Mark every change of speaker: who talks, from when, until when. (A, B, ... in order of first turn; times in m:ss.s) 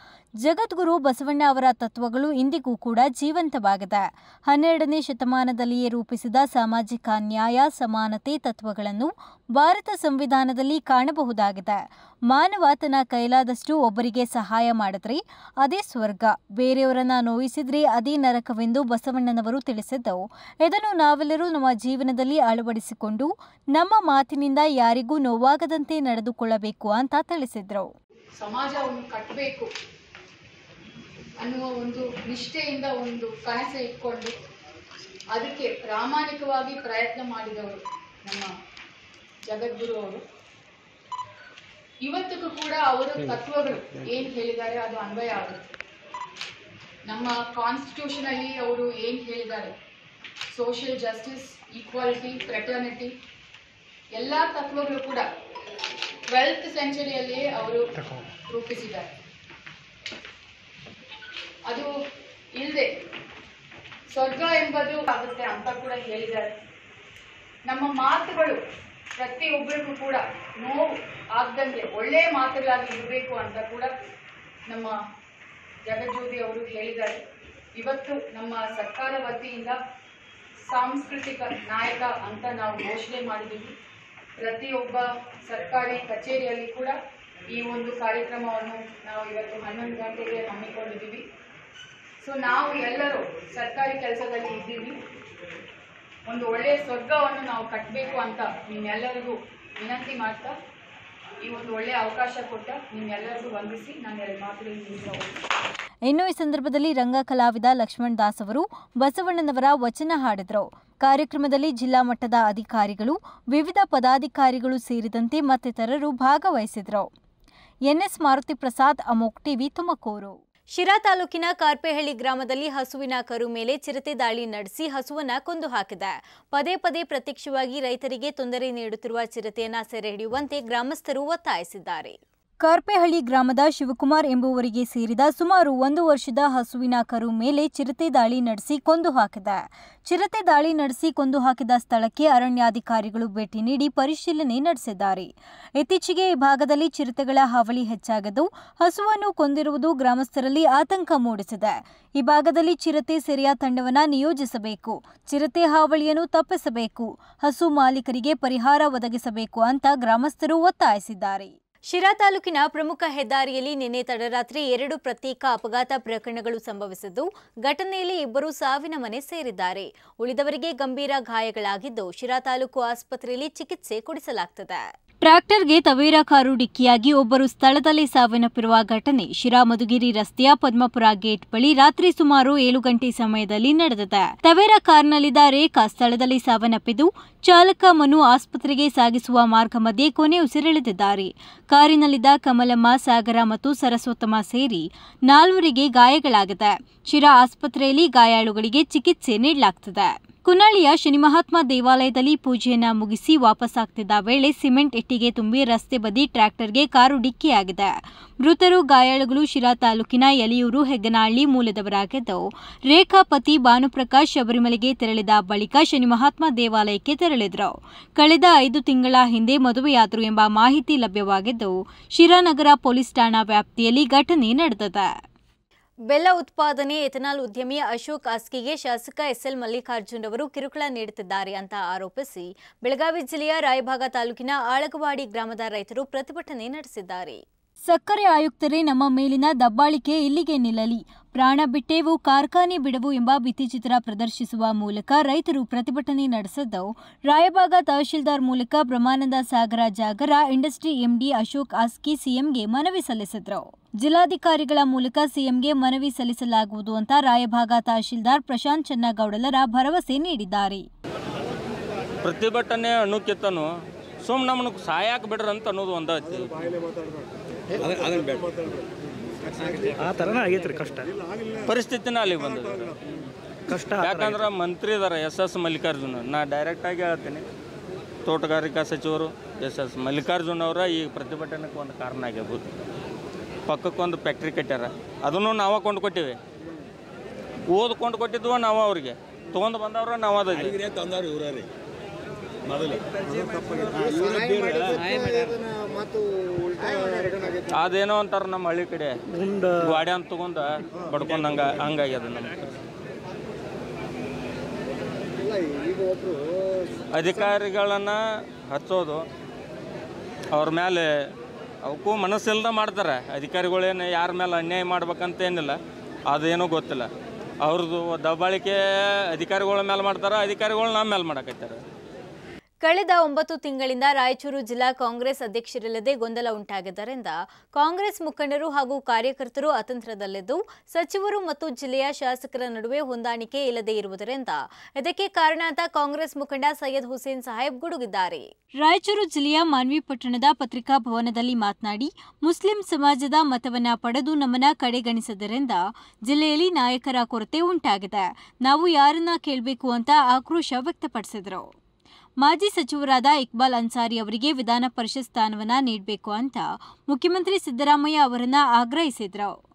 0:00.4-0:27.9 A
0:28.4-0:29.7 B
0:31.4-0:34.3 B
0:35.3-0:38.5 B
0:39.5-0:40.2 B
0:42.0-0:45.6 B
0:47.1-0:49.7 B
0:50.5-0:53.1 B
0:54.1-0:55.2 B
0:56.3-0:57.9 B
0:58.5-0:59.1 B
1:02.6-1:02.9 B
1:04.1-1:06.5 B
1:07.6-1:08.6 B
1:09.2-1:13.9 B
1:14.7-1:14.9 B
1:15.8-1:17.2 B
1:17.8-1:19.8 B
1:20.7-1:23.7 B
1:24.4-1:26.9 B
1:27.5-1:31.2 B
1:32.2-1:35.0 B
1:36.3-1:40.5 B
1:41.4-1:45.3 B
1:46.1-1:57.1 A
1:57.9-3:45.1 A
3:46.1-4:20.8 A
4:22.2-4:23.7 C
4:24.2-4:26.6 C
4:29.8-4:31.1 D
4:31.7-4:32.9 C
4:33.7-4:34.5 D
4:34.0-4:37.4 C
4:38.2-4:42.7 C
4:43.7-4:46.4 C
4:47.7-4:50.8 C
4:55.0-4:55.5 D
4:57.7-4:59.2 C
4:59.3-4:59.9 D
4:59.8-5:02.7 C
5:07.1-5:09.2 C
5:10.5-5:11.1 C
5:11.8-5:15.8 C
5:16.3-5:17.1 C
5:17.6-5:18.8 C
5:19.3-5:21.8 C
5:22.8-5:51.7 A
5:52.4-5:59.6 A